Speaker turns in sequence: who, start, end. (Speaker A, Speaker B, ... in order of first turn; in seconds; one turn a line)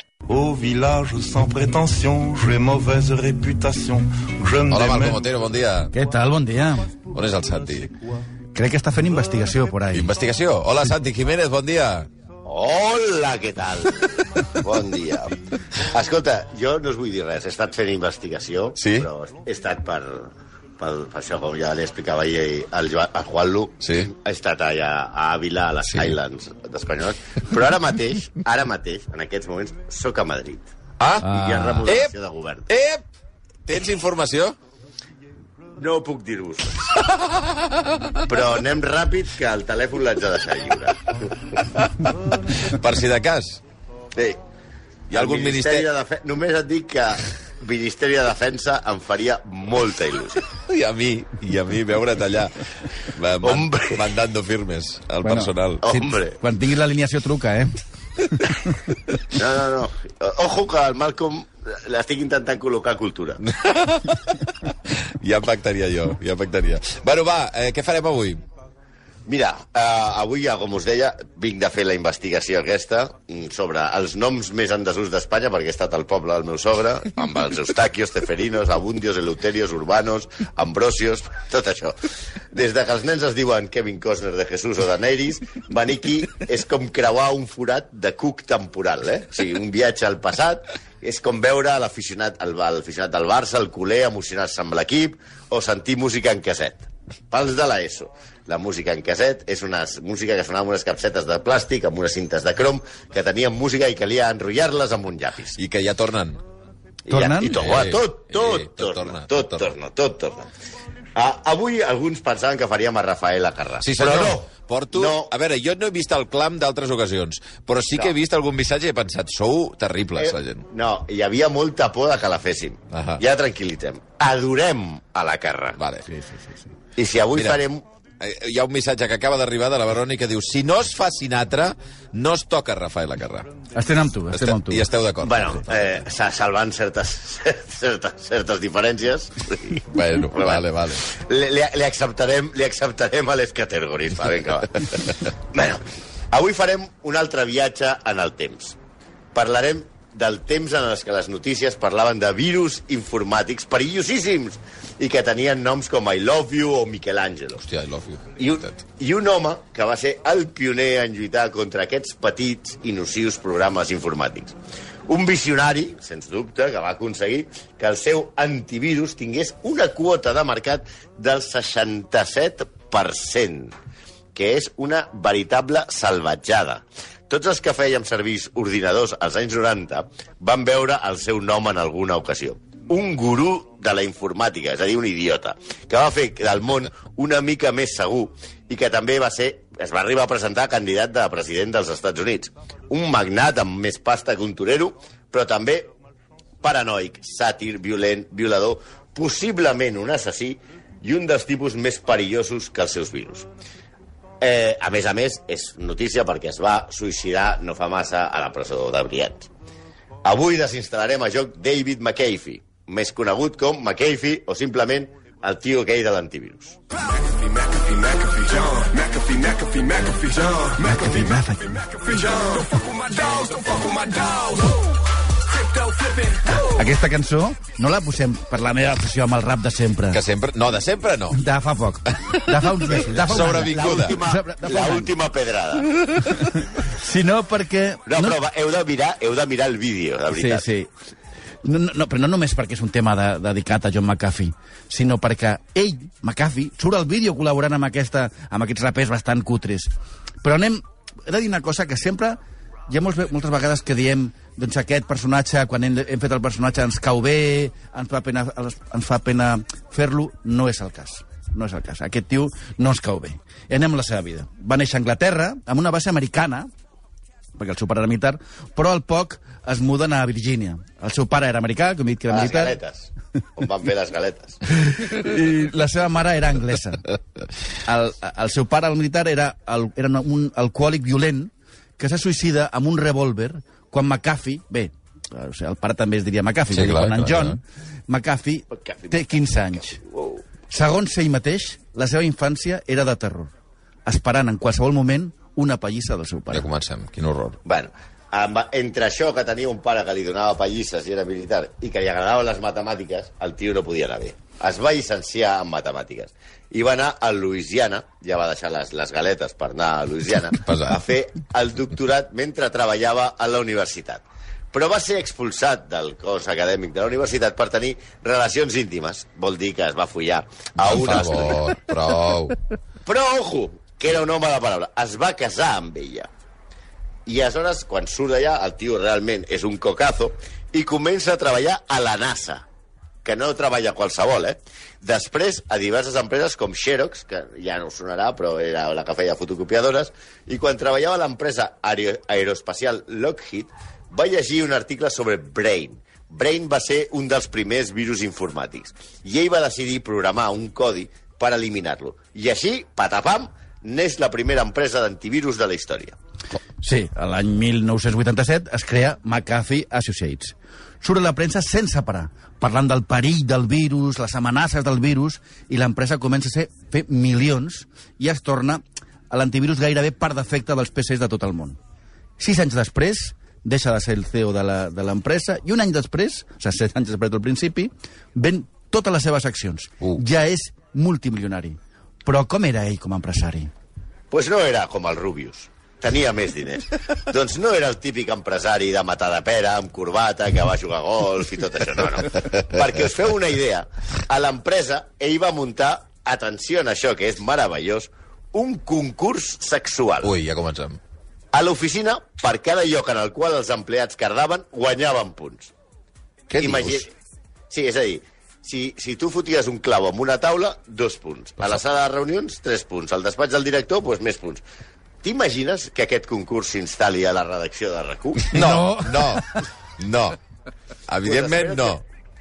Speaker A: 0.3-5.2
Speaker B: 4.7-5.9
Speaker C: 5.9-6.9
Speaker B: 7.1-7.9
Speaker C: 8.5-10.1
Speaker B: 9.9-12.1
Speaker D: 12.4-30.7
Speaker B: 18.8-19.1
Speaker B: 23.8-24.1
Speaker B: 31.0-32.1
Speaker D: 31.2-32.7
Speaker B: 32.7-33.0
Speaker B: 33.7-34.5
Speaker D: 35.8-37.0
Speaker B: 37.0-38.2
Speaker D: 38.2-41.3
Speaker B: 42.5-43.6
Speaker D: 44.1-44.4
Speaker B: 45.1-45.9
Speaker D: 45.1-50.4
Speaker B: 50.7-55.9
Speaker D: 53.4-54.2
Speaker C: 55.2-58.7
Speaker D: 55.8-56.4
Speaker D: 59.3-63.4
Speaker B: 63.4-68.4
Speaker D: 69.3-82.0
Speaker D: 82.5-105.5
Speaker B: 105.5-106.4
Speaker D: 107.1-110.5
Speaker C: 107.1-107.6
Speaker B: 107.5-109.7
Speaker D: 111.1-115.3
Speaker B: 113.8-120.6
Speaker D: 120.2-125.8
Speaker B: 122.9-123.2
Speaker B: 125.8-126.0
Speaker C: 126.1-126.5
Speaker D: 127.0-127.8
Speaker B: 127.3-127.6
Speaker B: 128.2-133.5
Speaker C: 133.7-134.8
Speaker B: 134.3-135.9
Speaker D: 135.2-148.8
Speaker B: 139.9-141.1
Speaker D: 149.3-157.6
Speaker B: 157.6-158.7
Speaker D: 158.4-164.6
Speaker D: 165.1-173.7
Speaker D: 174.3-195.9
Speaker D: 196.6-203.5
Speaker D: 204.4-209.5
Speaker D: 210.2-216.8
Speaker A: 216.9-224.9
Speaker C: 220.8-221.7
Speaker A: 225.5-226.7
Speaker C: 226.6-230.2
Speaker B: 230.1-231.4
Speaker C: 231.3-235.1
Speaker B: 232.4-234.2
Speaker D: 233.4-235.9
Speaker C: 236.2-238.4
Speaker D: 238.1-240.7
Speaker C: 240.3-240.9
Speaker C: 241.6-249.9
Speaker C: 250.4-266.7
Speaker C: 267.6-272.8
Speaker D: 272.3-274.6
Speaker C: 274.7-277.1
Speaker C: 277.8-290.0
Speaker B: 286.7-287.6
Speaker D: 288.7-290.4
Speaker C: 290.7-293.5
Speaker C: 294.1-296.6
Speaker B: 296.5-297.6
Speaker D: 297.6-321.7
Speaker B: 310.6-311.0
Speaker B: 320.8-322.6
Speaker D: 323.0-326.3
Speaker D: 327.2-332.6
Speaker D: 333.2-356.1
Speaker C: 356.8-371.8
Speaker C: 372.4-383.7
Speaker D: 384.3-400.3
Speaker B: 400.2-401.0
Speaker D: 401.5-405.7
Speaker B: 406.5-407.0
Speaker D: 406.6-407.1
Speaker D: 407.7-414.6
Speaker D: 415.2-418.5
Speaker B: 418.5-420.4
Speaker C: 418.5-419.6
Speaker B: 421.1-422.0
Speaker D: 421.2-422.0